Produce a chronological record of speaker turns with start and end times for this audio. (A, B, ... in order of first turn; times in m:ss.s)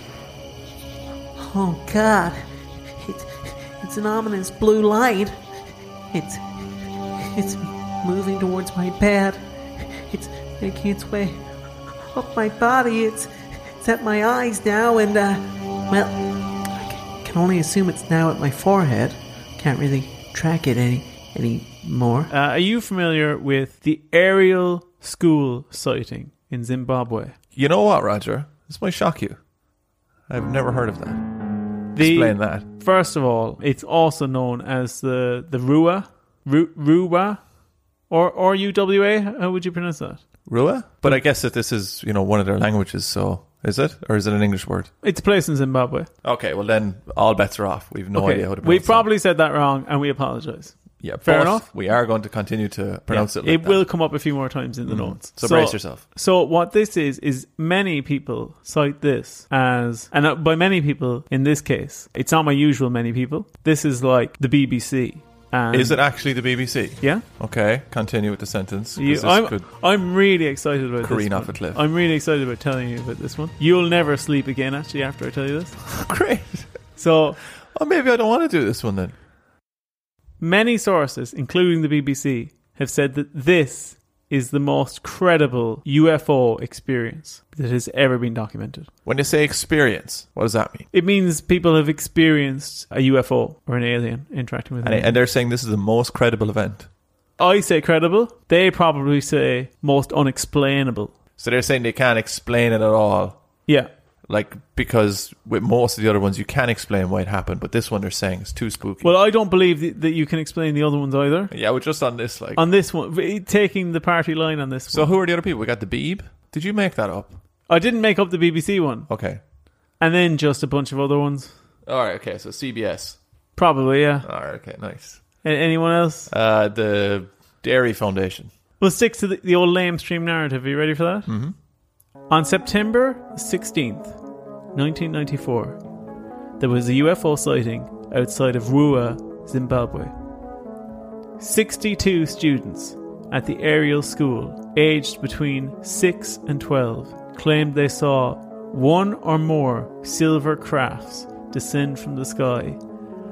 0:01.4-0:05.4 A
0:06.1-0:11.4 A
0:12.1-0:22.3 A
0:22.3-0:27.4 B
0:27.6-0:29.4 C
0:30.3-0:31.3 C
0:32.0-0:37.4 B
0:32.0-0:32.7 C
0:38.1-0:40.2 B
0:40.5-0:44.9 C
0:45.0-0:46.1 B
0:46.2-0:49.1 C
0:48.1-0:51.7 B
0:51.0-0:53.8 C
0:53.1-1:06.0 B
0:54.9-0:56.0 C
1:05.7-1:09.7 C
1:09.0-1:15.9 B
1:11.0-1:11.8 C
1:16.0-1:16.7 C
1:17.0-1:17.4 B
1:17.7-1:19.1 C
1:20.4-1:28.9 B
1:29.0-1:30.9 C
1:30.9-1:35.1 B
1:34.8-1:36.9 C
1:37.4-1:41.1 B
1:41.4-1:43.4 C
1:44.3-1:49.1 C
1:49.0-1:51.5 B
1:51.5-1:52.6 C
1:52.6-1:55.1 B
1:54.9-1:57.4 C
1:57.7-1:59.1 B
1:59.1-1:59.4 C
2:00.0-2:01.5 B
2:01.9-2:03.2 C
2:03.6-2:04.3 B
2:04.2-2:05.2 C
2:05.4-2:06.3 B
2:06.3-2:08.5 C
2:08.8-2:11.3 B
2:11.3-2:11.5 C
2:12.3-2:14.1 B
2:14.7-2:15.8 B
2:16.6-2:20.1 B
2:21.4-2:32.8 B